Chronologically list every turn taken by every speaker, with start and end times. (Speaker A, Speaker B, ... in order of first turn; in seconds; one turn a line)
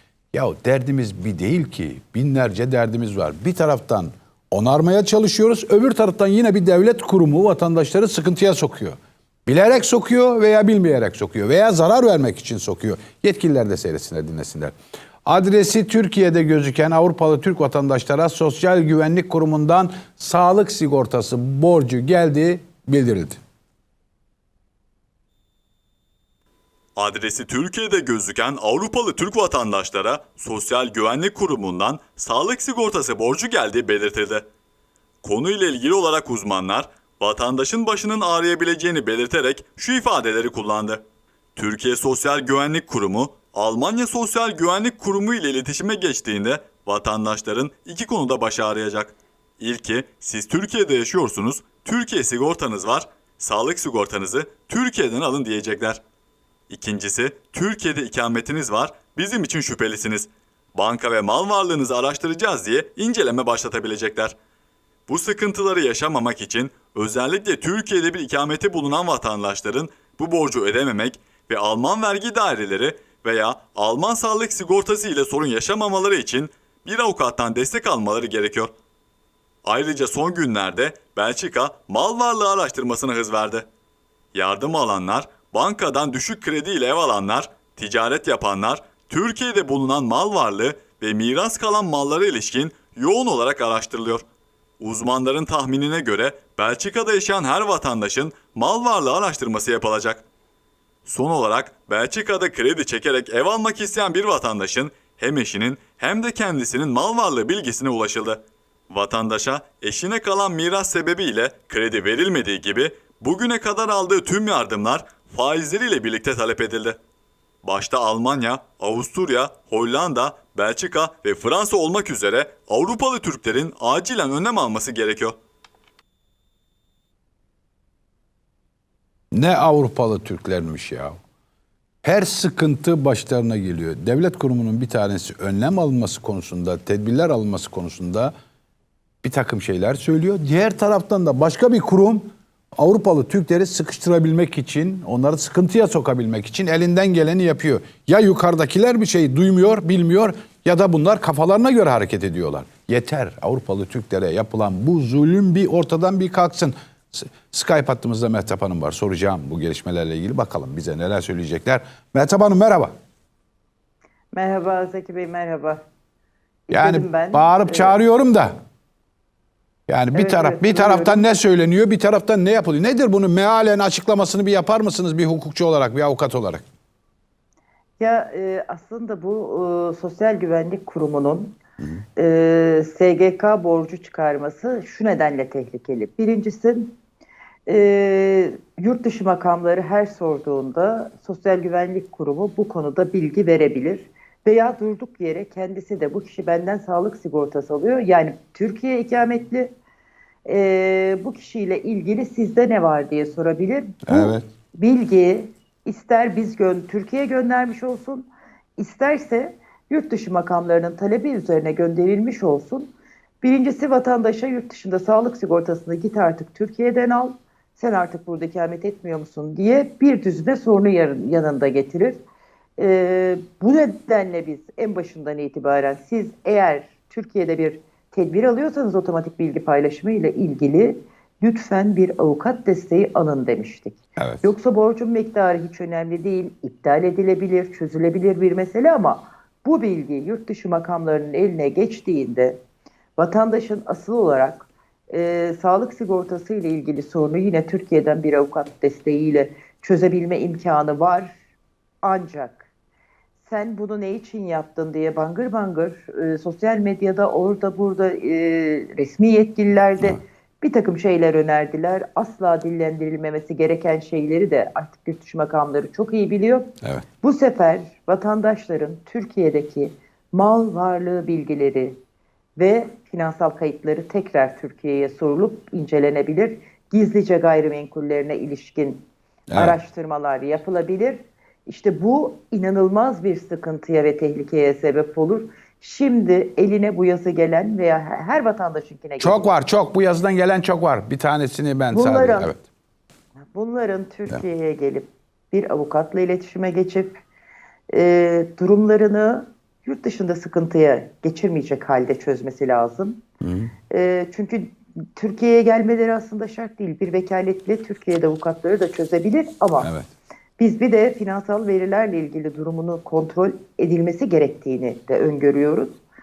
Speaker A: 0.3-14.7
Speaker A: 15.2-23.4
Speaker B: 27.0-34.4
Speaker B: 35.2-41.0
Speaker B: 41.5-56.0
Speaker B: 56.7-64.3
Speaker B: 65.1-78.7
Speaker B: 79.6-83.7
Speaker B: 84.3-94.2
Speaker B: 94.8-100.2
Speaker B: 101.0-117.0
Speaker B: 117.6-125.3
Speaker A: 129.3-131.2
Speaker A: 132.0-138.3
Speaker A: 139.2-162.9
Speaker C: 164.3-165.8
Speaker C: 166.7-168.0
Speaker A: 166.7-168.5
Speaker A: 169.9-176.6
Speaker C: 170.1-171.3
Speaker C: 178.0-181.6
Speaker C: 182.2-187.0
Speaker C: 187.7-199.7
Speaker C: 200.4-222.2
Speaker A: 204.1-204.4
Speaker C: 222.8-242.6
Speaker A: 234.2-234.4
Speaker C: 243.2-251.4
Speaker C: 252.0-252.7
Speaker C: 253.4-272.0
Speaker C: 272.6-289.5
Speaker A: 279.5-279.8
Speaker A: 289.2-292.6
Speaker C: 291.9-292.5
Speaker C: 293.5-297.2
Speaker C: 297.9-303.2
Speaker A: 303.4-303.7
Speaker C: 303.9-309.9
Speaker A: 309.8-310.1
Speaker C: 310.6-316.0